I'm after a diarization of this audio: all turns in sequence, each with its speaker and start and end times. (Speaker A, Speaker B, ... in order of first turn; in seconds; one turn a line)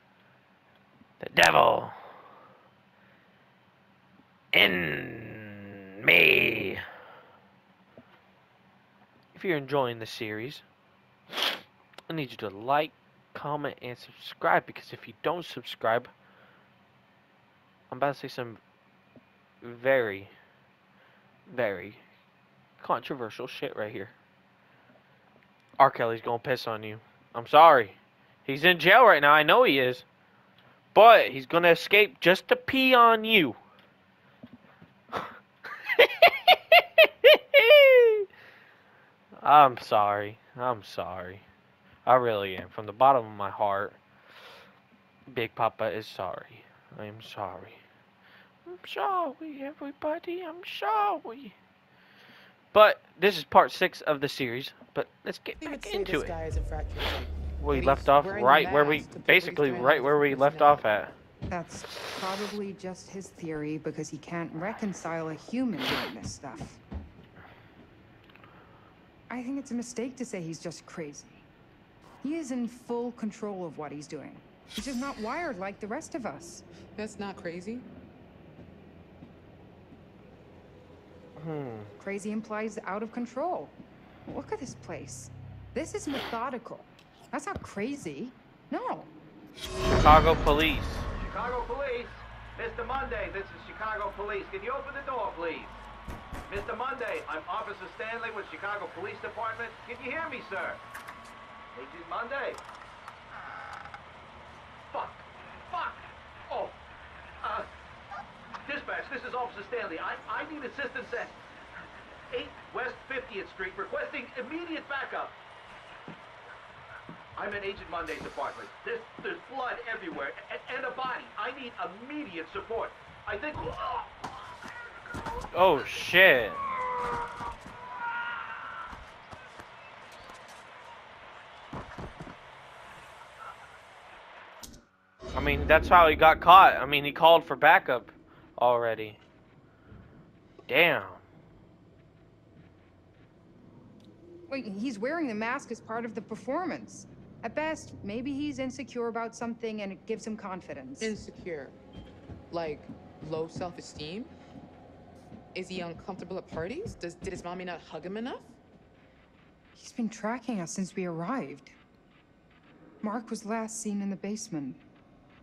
Speaker A: 1.2-2.0
Speaker A: 4.5-6.8
Speaker A: 9.3-10.6
Speaker A: 12.1-16.1
Speaker A: 17.9-18.6
Speaker A: 19.6-20.3
Speaker A: 21.5-22.0
Speaker A: 22.8-24.1
Speaker A: 25.8-30.0
Speaker A: 30.9-33.6
Speaker A: 36.0-38.2
Speaker A: 39.4-41.4
Speaker A: 42.0-44.0
Speaker A: 45.3-47.8
Speaker A: 48.6-51.5
Speaker A: 52.7-56.3
Speaker B: 55.6-61.0
Speaker A: 57.6-61.1
Speaker C: 61.5-66.8
Speaker C: 69.3-71.4
Speaker C: 72.2-76.6
Speaker B: 77.0-77.8
Speaker A: 81.4-81.9
Speaker C: 82.0-89.1
Speaker A: 90.0-91.0
Speaker D: 91.2-95.7
Speaker D: 96.5-100.8
Speaker D: 101.7-102.6
Speaker D: 104.9-106.8
Speaker D: 107.4-107.7
Speaker D: 108.6-111.4
Speaker D: 112.3-115.4
Speaker D: 117.3-124.1
Speaker A: 125.5-126.6
Speaker A: 135.3-139.2
Speaker A: 140.7-141.2
Speaker C: 144.5-151.1
Speaker B: 151.0-151.7
Speaker B: 152.5-154.3
Speaker B: 155.5-158.6
Speaker C: 159.8-161.7
Speaker C: 163.0-164.8